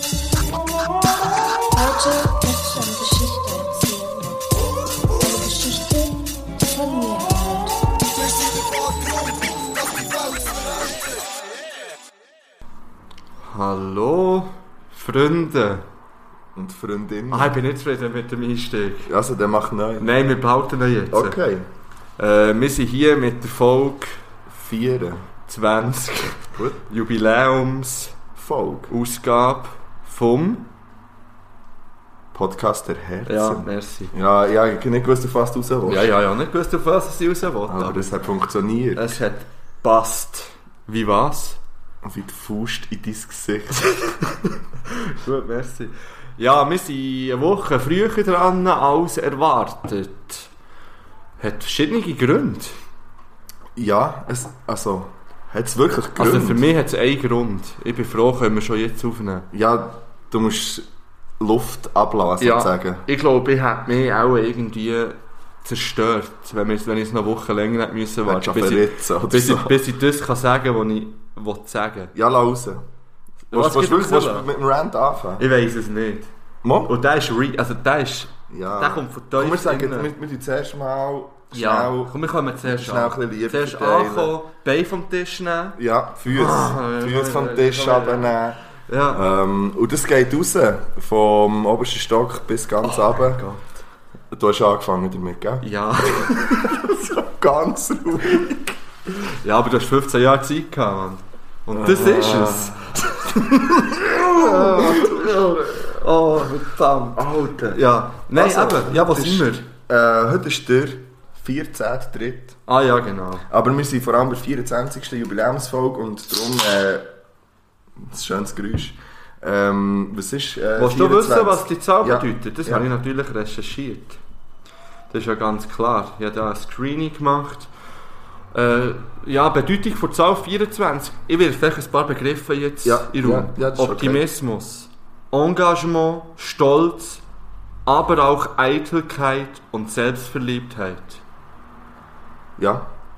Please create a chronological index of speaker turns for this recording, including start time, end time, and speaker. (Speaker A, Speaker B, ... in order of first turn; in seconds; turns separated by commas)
Speaker A: 1.7-4.5, Speaker A: 5.1-7.8, Speaker B: 13.5-15.8, Speaker C: 16.6-17.6, Speaker B: 17.3-19.1, Speaker C: 19.1-20.1, Speaker B: 20.0-21.4, Speaker C: 21.1-21.7, Speaker B: 22.2-24.2, Speaker C: 24.5-25.3, Speaker B: 25.5-28.2, Speaker C: 26.6-26.8, Speaker C: 28.4-28.9, Speaker B: 28.9-30.7, Speaker C: 32.3-36.1, Speaker B: 33.3-34.1, Speaker B: 35.9-38.1, Speaker C: 37.7-39.2, Speaker B: 39.0-41.6, Speaker C: 42.0-43.9, Speaker B: 43.8-50.5, Speaker B: 51.4-52.8, Speaker C: 53.8-56.7, Speaker B: 56.2-59.5, Speaker C: 59.5-60.9, Speaker C: 61.4-63.0, Speaker B: 62.4-72.1, Speaker C: 68.2-69.8, Speaker C: 72.1-72.8, Speaker B: 73.5-74.5, Speaker C: 73.5-75.5, Speaker B: 75.4-76.3, Speaker C: 76.6-76.9, Speaker B: 76.9-80.1, Speaker C: 78.5-84.3, Speaker B: 81.5-89.2, Speaker C: 85.8-93.4, Speaker B: 92.8-93.7, Speaker C: 94.3-98.8, Speaker B: 95.6-96.9, Speaker B: 99.1-109.7, Speaker C: 101.7-103.1, Speaker C: 103.7-105.9, Speaker C: 107.2-107.8, Speaker C: 108.3-112.6, Speaker B: 112.7-113.5, Speaker C: 113.5-117.1, Speaker C: 118.0-122.9, Speaker B: 120.8-124.2, Speaker B: 125.1-127.7, Speaker B: 128.5-137.2, Speaker C: 132.8-134.2, Speaker B: 137.9-141.2, Speaker C: 142.6-142.9